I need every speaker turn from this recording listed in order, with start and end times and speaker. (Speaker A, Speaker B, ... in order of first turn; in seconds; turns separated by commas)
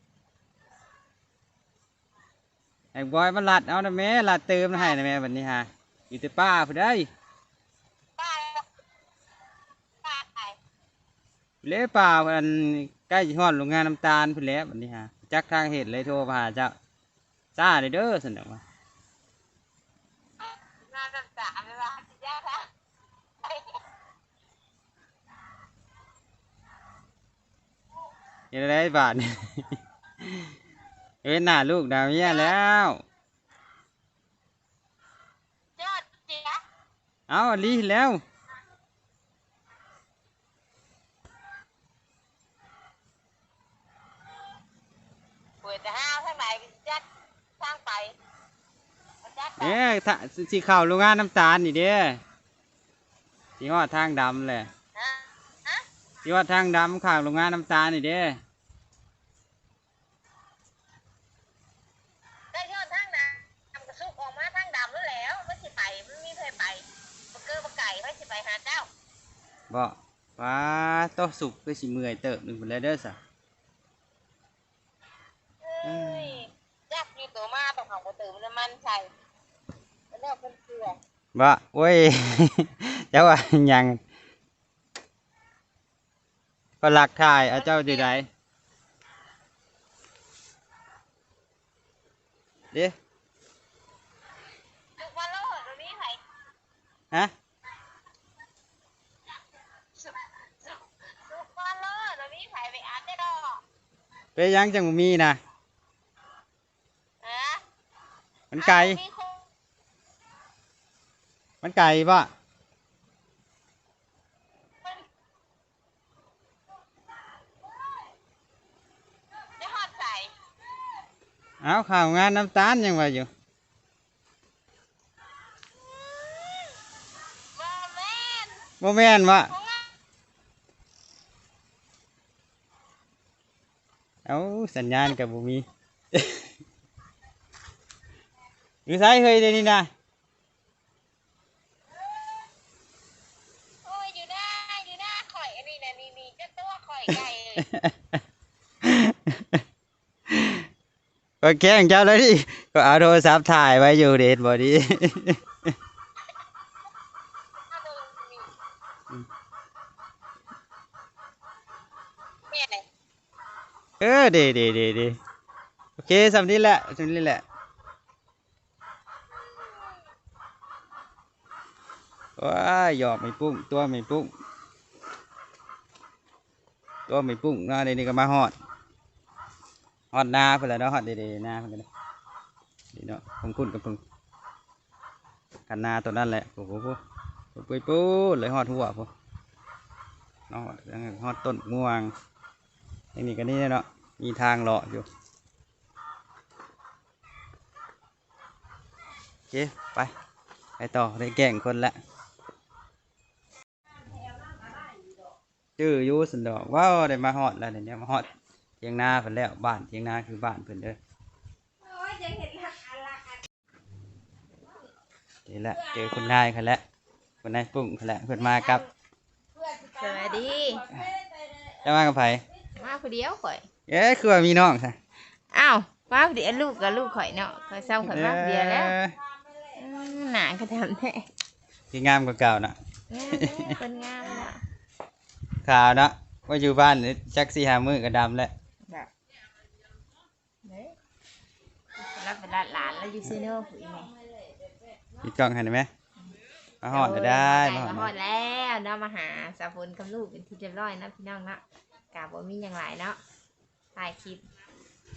Speaker A: 2.9-7.1, Speaker B: 8.2-8.7, Speaker B: 10.0-10.6, Speaker A: 11.6-16.8, Speaker A: 17.5-18.6, Speaker B: 20.4-22.7, Speaker B: 23.4-23.8, Speaker A: 28.5-30.5, Speaker A: 31.2-33.0, Speaker B: 32.2-32.5, Speaker B: 35.8-36.6, Speaker A: 37.3-38.2, Speaker B: 45.6-47.0, Speaker B: 47.6-48.1, Speaker B: 49.2-49.8, Speaker A: 49.6-52.2, Speaker A: 53.6-54.7, Speaker B: 54.9-55.8, Speaker A: 56.2-58.4, Speaker B: 62.5-68.9, Speaker A: 69.7-73.2, Speaker B: 75.6-79.1, Speaker A: 75.8-76.4, Speaker B: 80.1-81.0, Speaker A: 81.3-84.0, Speaker A: 86.8-88.3, Speaker B: 87.5-88.1, Speaker B: 95.0-96.2, Speaker B: 99.8-103.6, Speaker A: 104.3-105.4, Speaker B: 107.2-107.6, Speaker A: 108.5-109.0, Speaker B: 108.5-109.5, Speaker A: 111.6-112.3, Speaker B: 119.6-120.3, Speaker A: 121.6-123.3, Speaker B: 125.7-126.8, Speaker B: 127.5-128.7, Speaker A: 128.8-129.5, Speaker B: 129.5-129.9, Speaker A: 134.2-136.5, Speaker A: 138.9-139.9, Speaker B: 143.8-147.7, Speaker A: 147.6-148.2, Speaker A: 148.8-149.6, Speaker A: 150.3-150.7, Speaker A: 151.4-155.7, Speaker B: 157.7-158.5, Speaker B: 162.5-162.8, Speaker A: 164.0-165.2, Speaker A: 166.0-167.4, Speaker B: 169.5-169.9, Speaker A: 172.4-174.3, Speaker A: 177.1-178.5, Speaker A: 180.1-181.9, Speaker A: 182.9-184.0, Speaker A: 185.7-187.0, Speaker A: 187.5-189.1, Speaker A: 190.5-192.1, Speaker A: 193.1-195.1, Speaker A: 199.5-200.1, Speaker A: 200.8-201.9, Speaker A: 205.8-208.3, Speaker A: 208.8-211.0, Speaker A: 215.5-216.8, Speaker A: 217.4-218.8, Speaker C: 219.7-220.9, Speaker A: 221.8-222.4, Speaker C: 222.8-223.7, Speaker A: 223.9-225.0, Speaker C: 225.5-229.0, Speaker A: 228.0-229.1, Speaker C: 229.7-231.3, Speaker A: 231.9-232.8, Speaker C: 233.1-234.6, Speaker A: 233.3-233.8, Speaker A: 235.6-238.5, Speaker C: 240.6-240.9, Speaker C: 242.0-244.1, Speaker A: 245.2-245.9, Speaker A: 246.8-248.1, Speaker C: 246.9-251.6, Speaker C: 252.1-253.2, Speaker C: 253.9-254.4